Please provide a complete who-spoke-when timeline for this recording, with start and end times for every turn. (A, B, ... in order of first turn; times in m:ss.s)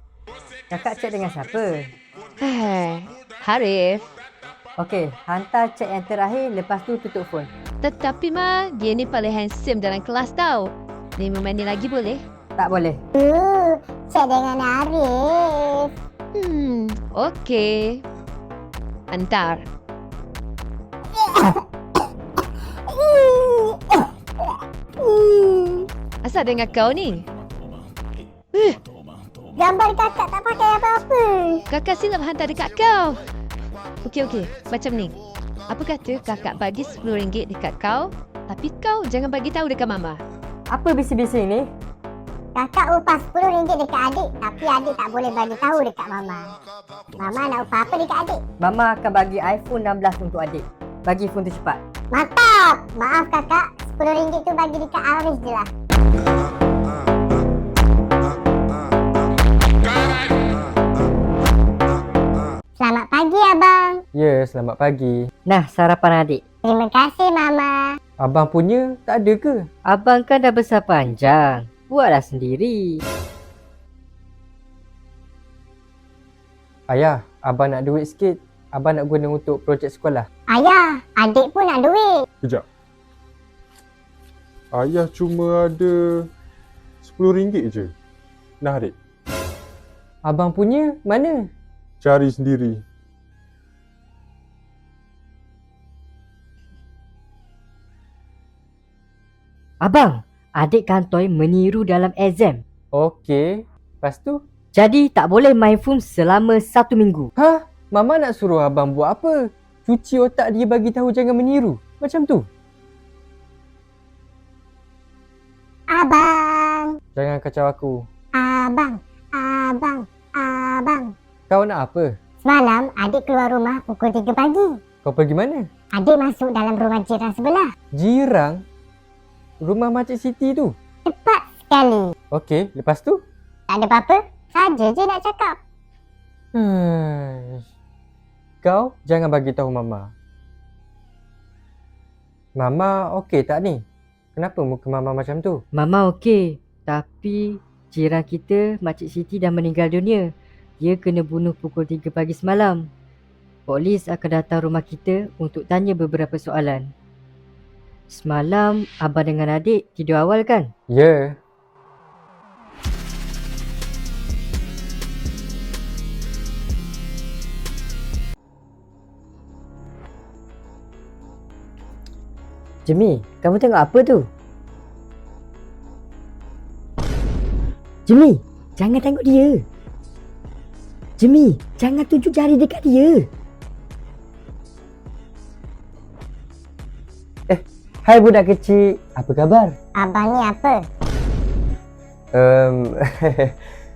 0:00.7-0:01.9 A
0:02.4-0:04.1 B
0:04.8-0:07.5 A
0:07.8-0:12.2 B
0:12.6-0:13.0 A
0:13.2-0:15.9 C
0:16.4-0:18.0 B
0:19.1-0:19.6 B
0:21.1-0:21.6 C
0:22.9-0:24.5 C
0:25.0-0:25.7 B
0:25.3-0:25.9 C
0:26.2-0:27.3 B
0:28.5-0:28.8 B
0:29.6-0:31.6 C
0:31.7-0:33.2 B
0:34.0-0:35.2 B
0:35.7-0:40.2 B
0:40.7-0:41.7 A
0:42.6-0:46.5 C
0:47.2-0:48.4 C
0:48.6-0:51.8 A
0:52.1-0:55.7 C
1:02.8-1:04.0 C
1:04.1-1:05.2 D
1:05.5-1:06.4 A
1:06.6-1:07.8 C
1:08.2-1:09.6 D
1:09.9-1:13.0 A
1:16.9-1:20.3 D
1:20.5-1:22.1 C
1:24.7-1:26.3 E
1:27.0-1:27.9 E
1:28.6-1:28.9 E
1:30.2-1:31.5 D
1:32.0-1:32.8 E
1:39.8-1:42.6 A
1:42.9-1:44.4 D
1:44.7-1:47.3 A
1:47.4-1:52.5 D
1:55.9-1:56.9 C
1:57.2-1:58.0 D
1:58.4-2:01.1 C
2:01.5-2:02.1 D
2:02.4-2:04.7 C
2:05.0-2:05.7 D
2:05.9-2:07.7 C
2:07.9-2:08.6 D
2:09.6-2:10.7 D
2:11.1-2:12.1 C
2:12.3-2:13.2 D
2:13.7-2:15.6 C
2:16.5-2:17.6 D
2:18.6-2:20.1 D
2:22.6-2:23.8 D
2:24.4-2:25.6 D
2:25.8-2:30.3 A
2:30.8-2:32.8 A
2:33.7-2:36.9 A
2:38.1-2:40.7 A
2:40.9-2:41.4 D
2:52.9-2:54.2 D
2:53.5-2:53.9 A
2:58.1-2:59.6 A
3:01.2-3:03.3 A
3:07.5-3:09.8 D
3:10.0-3:10.8 C
3:12.3-3:13.5 D